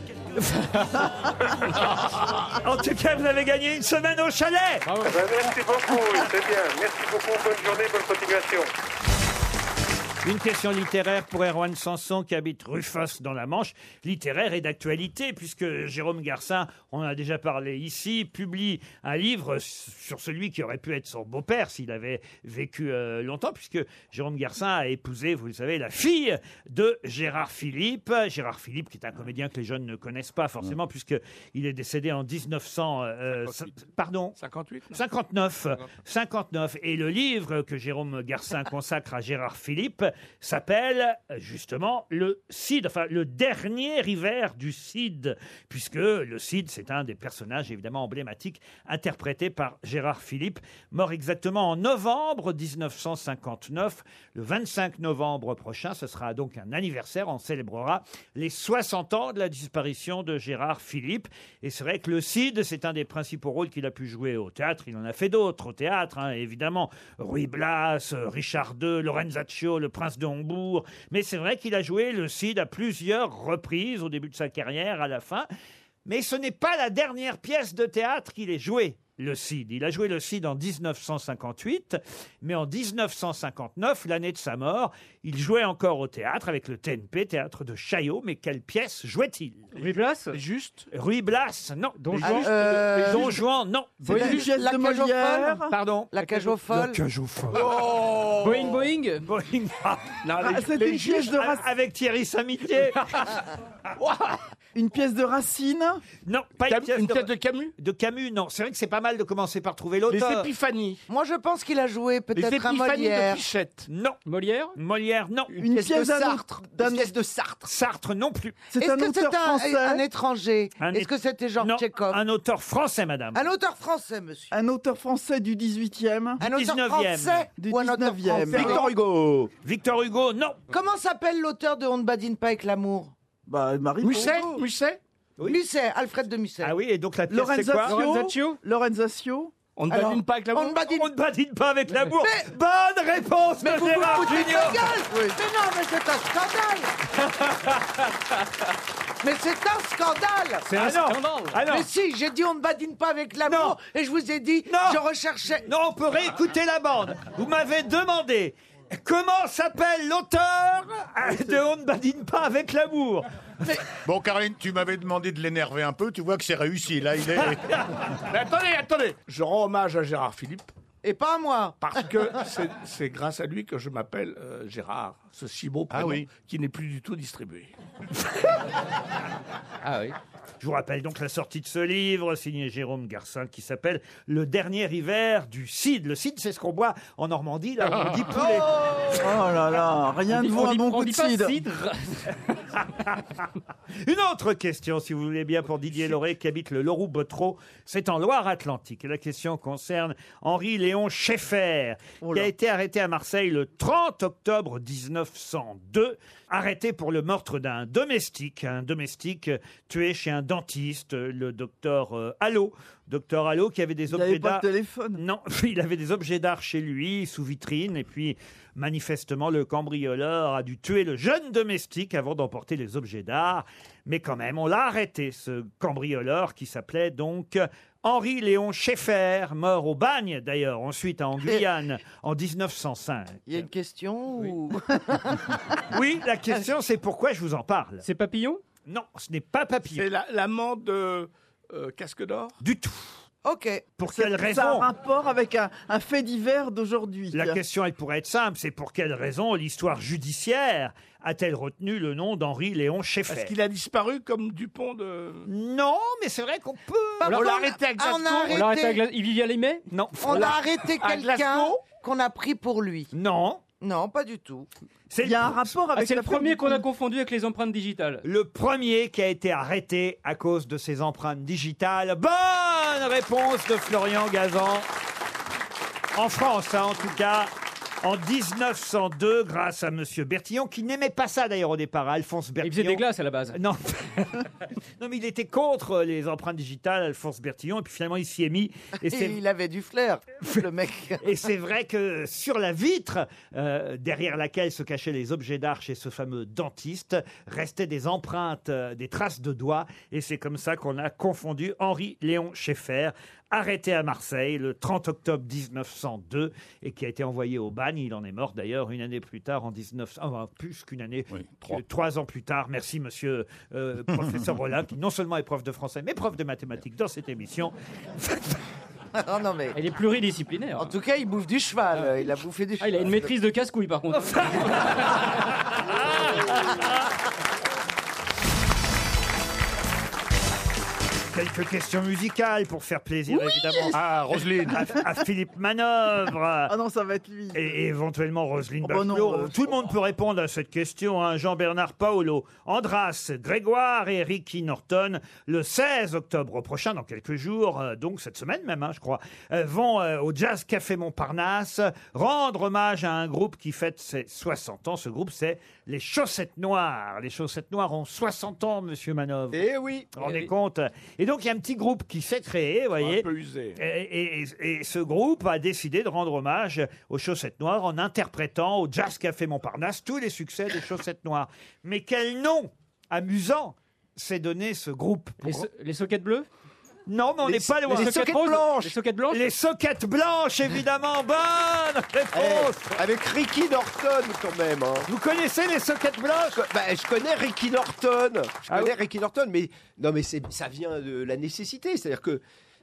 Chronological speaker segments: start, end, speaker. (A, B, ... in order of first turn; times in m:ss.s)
0:00.4-0:04.8 A
0:04.8-0:05.2 B
0:05.0-0:08.7 C
0:10.2-0:34.4 A
0:33.4-0:33.8 D
0:34.4-0:35.0 D
0:34.9-1:15.5 A
1:16.1-1:29.7 A
1:29.8-1:30.4 B
1:29.8-1:30.9 D
1:30.9-1:32.5 A
1:32.0-1:32.6 B
1:32.2-1:33.4 E
1:32.6-1:33.4 D
1:33.0-1:34.1 A
1:34.0-1:35.7 F
1:34.1-1:37.0 E
1:34.1-1:34.4 B
1:35.7-1:37.7 A
1:36.2-1:36.5 B
1:37.5-1:38.8 D
1:38.4-1:39.3 B
1:39.2-1:40.2 A
1:40.2-1:41.4 D
1:40.4-1:41.6 F
1:41.3-1:43.2 A
1:44.0-1:44.4 D
1:44.8-1:46.0 F
1:46.3-1:50.5 A
1:46.7-1:47.7 D
1:50.1-1:51.0 D
1:51.1-1:53.4 E
1:52.3-1:53.9 D
1:53.9-1:54.2 A
1:54.3-1:54.8 B
1:54.8-1:55.5 A
1:55.5-1:57.7 G
1:55.6-1:57.1 F
1:57.6-1:58.6 A
1:58.7-2:00.0 F
1:58.8-2:02.2 E
2:00.8-2:03.4 A
2:03.3-2:04.6 E
2:04.5-2:06.4 F
2:06.4-2:08.9 E
2:06.4-2:07.4 A
2:07.6-2:08.9 F
2:08.4-2:09.5 G
2:09.6-2:10.6 A
2:10.7-2:13.1 E
2:13.5-2:14.5 F
2:14.0-2:15.0 D
2:15.4-2:16.7 E
2:16.6-2:18.0 A
2:17.3-2:19.5 F
2:17.8-2:18.6 B
2:19.8-2:20.8 D
2:19.9-2:21.1 E
2:20.8-2:24.9 A
2:22.2-2:22.5 E
2:23.6-2:26.9 E
2:29.2-2:30.7 E
2:30.6-2:31.6 B
2:30.7-2:31.9 A
2:31.7-2:35.7 E
2:33.5-2:33.8 A
2:34.7-2:35.0 A
2:35.7-2:43.3 A
2:44.0-2:47.6 H
2:48.3-2:50.7 D
2:51.0-2:52.2 E
2:51.8-2:57.7 D
2:55.9-2:56.3 H
2:59.8-3:00.2 B
3:00.6-3:08.9 A
3:09.1-3:11.6 F
3:10.3-3:12.4 B
3:12.8-3:13.4 A
3:14.0-3:53.7 A
3:22.2-3:22.5 F
3:34.1-3:35.2 F
3:53.5-3:55.6 E
3:55.9-3:58.0 A
3:58.0-3:58.6 B
3:58.9-4:00.1 A
4:00.0-4:02.6 D
4:02.6-4:03.1 A
4:03.4-4:03.9 E
4:04.0-4:04.9 A
4:04.1-4:07.6 F
4:07.3-4:13.5 A
4:13.3-4:15.5 D
4:15.5-4:17.3 A
4:17.2-4:19.0 E
4:17.3-4:17.6 B
4:17.3-4:18.6 D
4:18.5-4:20.6 B
4:19.9-4:20.5 A
4:20.2-4:23.1 E
4:20.4-4:21.8 D
4:23.1-4:23.6 A
4:23.8-4:24.7 E
4:25.1-4:25.8 A
4:25.2-4:26.9 F
4:25.9-4:28.2 B
4:28.2-4:34.9 A
4:36.2-4:37.5 A
4:38.0-4:44.5 A
4:42.6-4:43.6 B
4:45.0-4:49.4 A
4:49.0-4:51.3 E
4:51.2-5:18.6 A
5:11.3-5:11.8 H
5:14.1-5:14.6 H
5:19.2-5:19.8 E
5:19.7-5:21.0 B
5:20.8-5:23.3 E
5:22.0-5:22.3 B
5:22.8-5:25.3 B
5:24.4-5:24.7 A
5:26.0-5:26.8 A
5:31.3-5:34.0 A
5:33.3-5:34.0 F
5:33.9-5:34.9 H
5:34.7-5:36.7 A
5:36.7-5:37.7 F
5:37.5-5:59.6 A
5:38.8-5:39.8 F
5:59.5-6:00.1 G
6:00.2-6:15.7 A
6:03.0-6:03.8 D
6:15.4-6:16.5 B
6:17.1-6:18.3 A
6:17.4-6:19.0 G
6:17.9-6:19.4 B
6:19.3-6:23.0 A
6:22.3-6:25.1 G
6:25.1-6:26.6 A
6:26.6-6:32.4 G
6:28.7-6:28.9 A